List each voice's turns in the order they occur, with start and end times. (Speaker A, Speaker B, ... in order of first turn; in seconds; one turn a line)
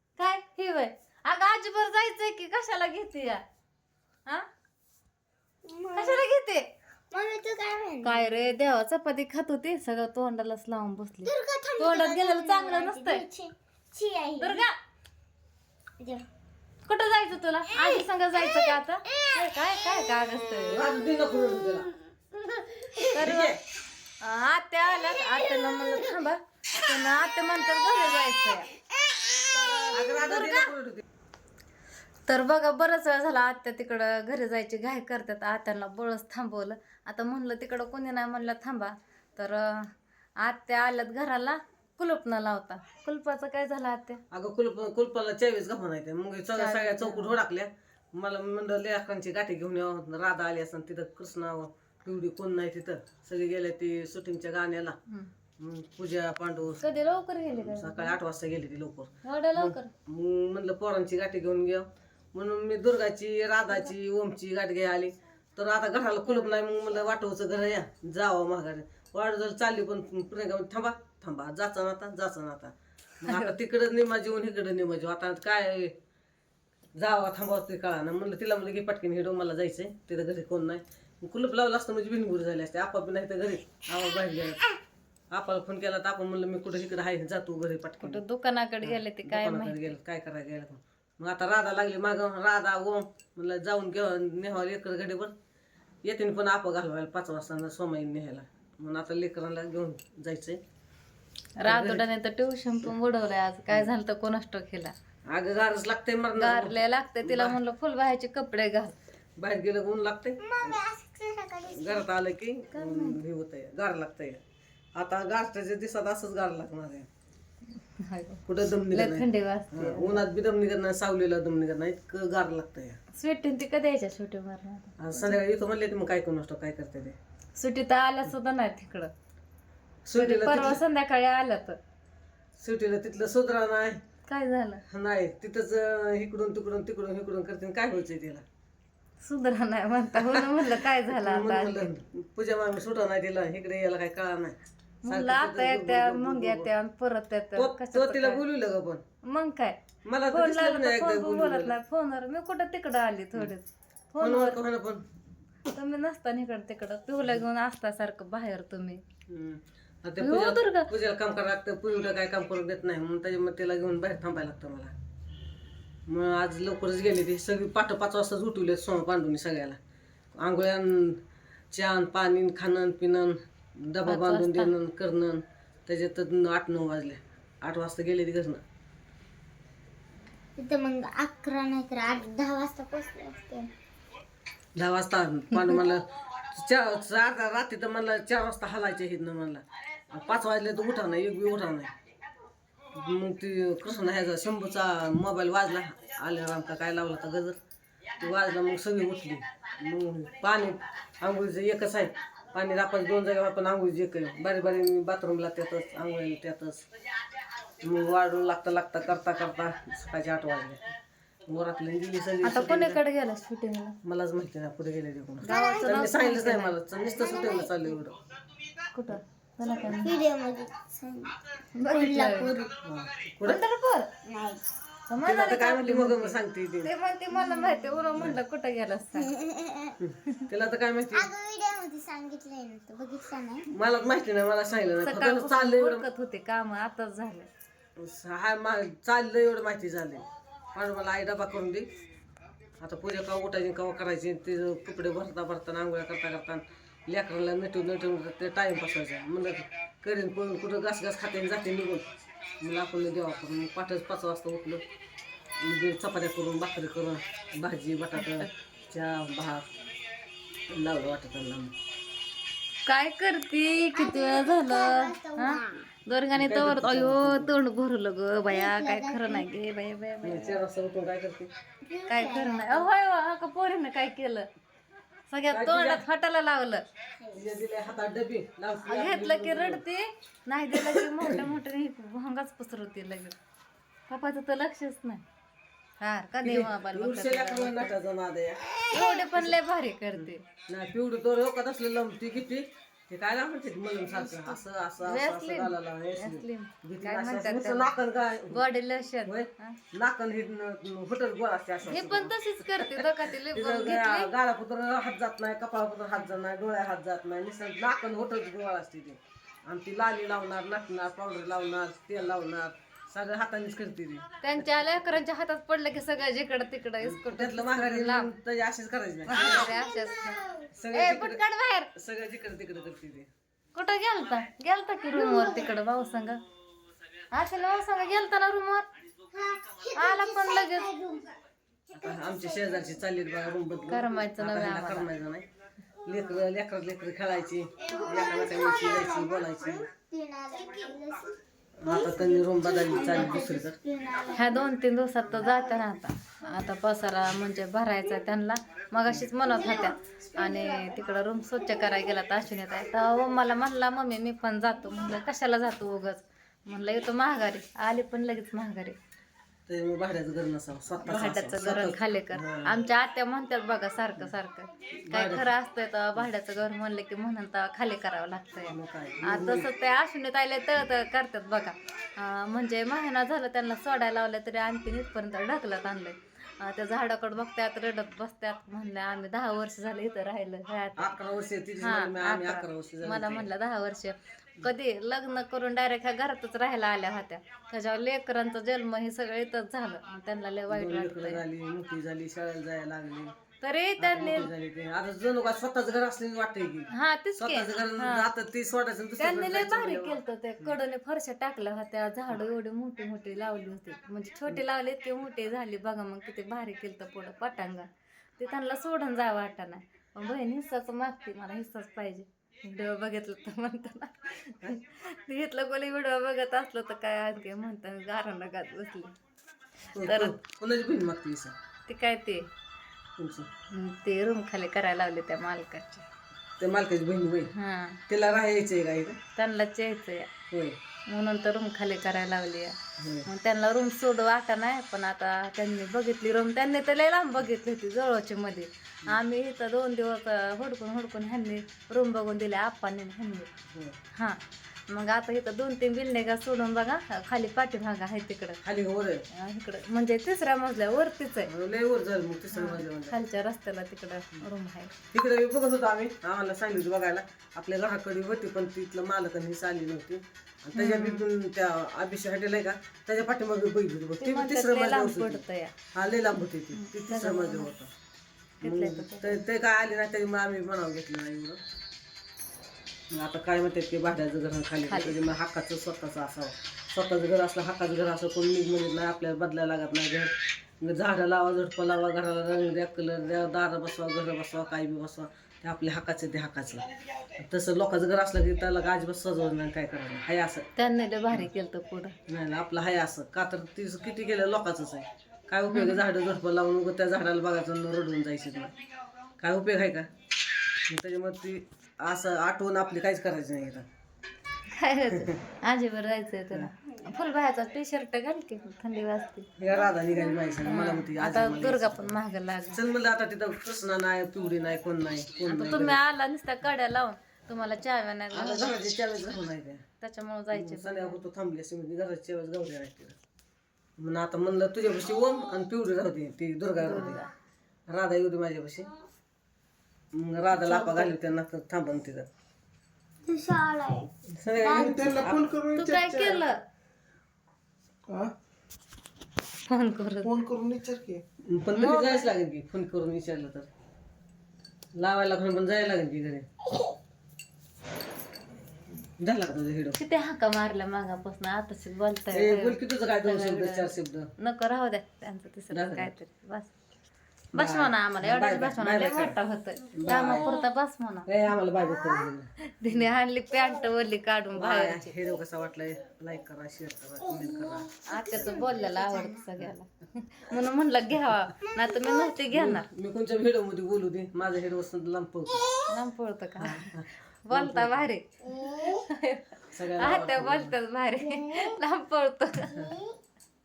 Speaker A: 0.2-3.4
Speaker B: 5.6-6.2
Speaker A: 5.9-6.7
Speaker B: 7.1-8.3
Speaker A: 8.0-13.2
Speaker B: 11.2-14.6
Speaker A: 14.4-14.7
Speaker B: 16.0-16.2
Speaker A: 16.9-20.9
Speaker B: 17.7-19.4
Speaker C: 20.6-21.9
Speaker B: 21.4-23.0
Speaker A: 23.0-23.6
Speaker C: 23.1-23.6
Speaker A: 24.2-28.7
Speaker A: 29.4-30.7
Speaker C: 29.9-31.0
Speaker A: 32.3-39.9
Speaker A: 40.4-44.2
Speaker C: 44.3-55.0
Speaker A: 46.5-47.4
Speaker C: 55.6-56.9
Speaker A: 56.8-58.2
Speaker C: 57.5-75.9
Speaker A: 59.2-59.9
Speaker A: 73.2-73.5
Speaker C: 77.0-84.8
Speaker C: 85.3-88.2
Speaker A: 88.0-89.9
Speaker C: 88.8-95.3
Speaker C: 96.0-100.6
Speaker A: 101.6-104.9
Speaker C: 101.7-102.0
Speaker C: 105.3-107.6
Speaker A: 106.4-108.9
Speaker C: 109.4-110.8
Speaker B: 110.4-112.0
Speaker C: 111.7-114.4
Speaker A: 112.7-113.2
Speaker C: 115.0-117.1
Speaker A: 118.0-120.2
Speaker C: 118.5-123.0
Speaker A: 123.1-125.4
Speaker C: 125.0-127.2
Speaker A: 127.6-129.1
Speaker C: 130.1-130.8
Speaker A: 130.2-131.8
Speaker C: 132.6-134.0
Speaker A: 134.3-134.8
Speaker C: 134.9-138.4
Speaker A: 139.2-141.9
Speaker C: 140.2-146.7
Speaker A: 145.0-148.4
Speaker C: 147.6-149.0
Speaker A: 149.2-149.8
Speaker C: 150.0-151.8
Speaker A: 150.3-154.6
Speaker C: 154.2-155.0
Speaker A: 155.7-159.0
Speaker C: 159.3-164.9
Speaker A: 160.2-160.9
Speaker C: 166.1-169.8
Speaker C: 170.4-171.2
Speaker C: 171.7-178.6
Speaker A: 174.1-174.7
Speaker B: 180.6-183.7
Speaker C: 184.8-191.9
Speaker A: 185.5-185.8
Speaker C: 192.9-197.6
Speaker C: 198.2-206.8
Speaker C: 207.8-210.8
Speaker C: 211.5-213.0
Speaker A: 212.4-214.0
Speaker C: 214.0-218.2
Speaker A: 215.4-216.8
Speaker B: 215.4-216.0
Speaker B: 217.0-217.9
Speaker A: 218.9-220.2
Speaker B: 219.8-222.7
Speaker A: 221.8-222.6
Speaker C: 222.8-223.6
Speaker A: 223.4-224.1
Speaker B: 224.2-224.7
Speaker A: 225.1-229.3
Speaker C: 225.2-226.9
Speaker B: 227.3-228.0
Speaker B: 229.1-230.0
Speaker C: 230.0-231.3
Speaker B: 231.1-233.7
Speaker C: 233.7-236.0
Speaker A: 235.0-237.5
Speaker C: 238.0-241.9
Speaker C: 242.8-252.1
Speaker C: 252.6-254.8
Speaker C: 255.6-259.7
Speaker A: 258.2-258.5
Speaker C: 260.6-261.7
Speaker A: 262.9-270.6
Speaker B: 263.9-265.9
Speaker C: 266.3-267.5
Speaker B: 268.5-269.5
Speaker C: 270.2-271.5
Speaker B: 271.8-272.9
Speaker A: 272.1-274.5
Speaker A: 275.3-276.8
Speaker C: 275.5-276.0
Speaker B: 277.2-277.5
Speaker C: 277.3-279.8
Speaker A: 278.8-283.3
Speaker C: 280.7-281.5
Speaker A: 284.1-285.2
Speaker A: 286.0-287.9
Speaker C: 286.4-289.5
Speaker A: 288.9-290.4
Speaker C: 290.1-298.6
Speaker A: 295.0-297.9
Speaker A: 298.5-299.8
Speaker C: 299.2-315.0
Speaker A: 301.8-304.3
Speaker A: 314.4-318.3
Speaker C: 317.0-319.7
Speaker A: 319.3-320.4
Speaker B: 319.3-320.7
Speaker C: 320.7-321.4
Speaker A: 320.9-321.9
Speaker C: 321.9-323.3
Speaker A: 323.7-326.4
Speaker B: 325.1-325.7
Speaker A: 327.3-328.9
Speaker B: 329.3-331.4
Speaker A: 329.9-330.9
Speaker B: 331.9-333.0
Speaker C: 331.9-335.5
Speaker A: 333.9-335.1
Speaker C: 336.0-339.9
Speaker B: 337.8-344.7
Speaker C: 341.8-343.8
Speaker A: 344.3-359.0
Speaker B: 349.4-351.1
Speaker B: 351.7-352.0
Speaker C: 359.7-362.8
Speaker A: 361.0-381.2
Speaker C: 365.1-365.5
Speaker C: 368.7-369.7
Speaker C: 381.0-383.5
Speaker A: 381.8-391.4
Speaker C: 390.7-393.3
Speaker A: 393.6-394.5
Speaker C: 394.0-400.7
Speaker A: 396.9-398.3
Speaker A: 399.2-419.1
Speaker C: 419.9-421.5
Speaker A: 420.0-420.3
Speaker A: 421.9-422.5
Speaker C: 423.2-423.5
Speaker A: 423.7-426.0
Speaker C: 426.6-427.5
Speaker A: 427.5-428.0
Speaker C: 428.1-429.2
Speaker A: 429.4-430.3
Speaker C: 430.5-430.8
Speaker A: 431.1-443.5
Speaker C: 433.0-433.3
Speaker C: 443.7-444.0
Speaker A: 444.1-448.6
Speaker C: 448.6-449.2
Speaker A: 449.3-451.5
Speaker C: 451.4-453.1
Speaker A: 452.5-454.9
Speaker C: 455.1-465.4
Speaker A: 460.7-461.3
Speaker A: 464.2-465.7
Speaker C: 465.9-467.9
Speaker A: 466.7-467.7
Speaker A: 468.6-469.4
Speaker C: 468.6-471.6
Speaker C: 473.1-490.7
Speaker A: 474.9-475.2
Speaker A: 490.8-492.1
Speaker C: 492.3-498.7
Speaker A: 495.7-496.0
Speaker C: 499.4-500.1
Speaker C: 500.9-503.9
Speaker A: 504.7-509.5
Speaker C: 505.1-505.4
Speaker C: 509.6-512.2
Speaker A: 510.6-512.8
Speaker C: 512.7-516.0
Speaker A: 515.5-518.7
Speaker C: 518.3-519.9
Speaker A: 520.0-521.2
Speaker C: 520.5-523.2
Speaker C: 524.0-527.2
Speaker A: 526.8-527.2
Speaker C: 527.9-528.9
Speaker C: 530.1-532.3
Speaker A: 530.5-531.2
Speaker B: 533.3-535.3
Speaker C: 534.3-535.6
Speaker D: 534.6-536.4
Speaker A: 535.7-536.6
Speaker D: 538.1-538.3
Speaker A: 539.7-540.4
Speaker D: 540.2-541.2
Speaker C: 541.4-543.7
Speaker A: 541.7-542.3
Speaker C: 545.0-546.5
Speaker C: 549.2-550.0
Speaker A: 550.0-556.7
Speaker C: 552.3-554.3
Speaker C: 555.7-556.1
Speaker A: 557.5-561.3
Speaker C: 557.5-559.4
Speaker C: 559.9-560.5
Speaker C: 561.2-563.1
Speaker A: 562.8-565.1
Speaker C: 564.5-568.7
Speaker B: 567.5-569.5
Speaker A: 568.1-572.9
Speaker B: 571.7-572.3
Speaker C: 572.5-575.6
Speaker A: 575.9-582.9
Speaker C: 576.6-578.1
Speaker B: 578.5-579.0
Speaker C: 579.7-580.8
Speaker B: 581.2-581.8
Speaker B: 582.8-583.1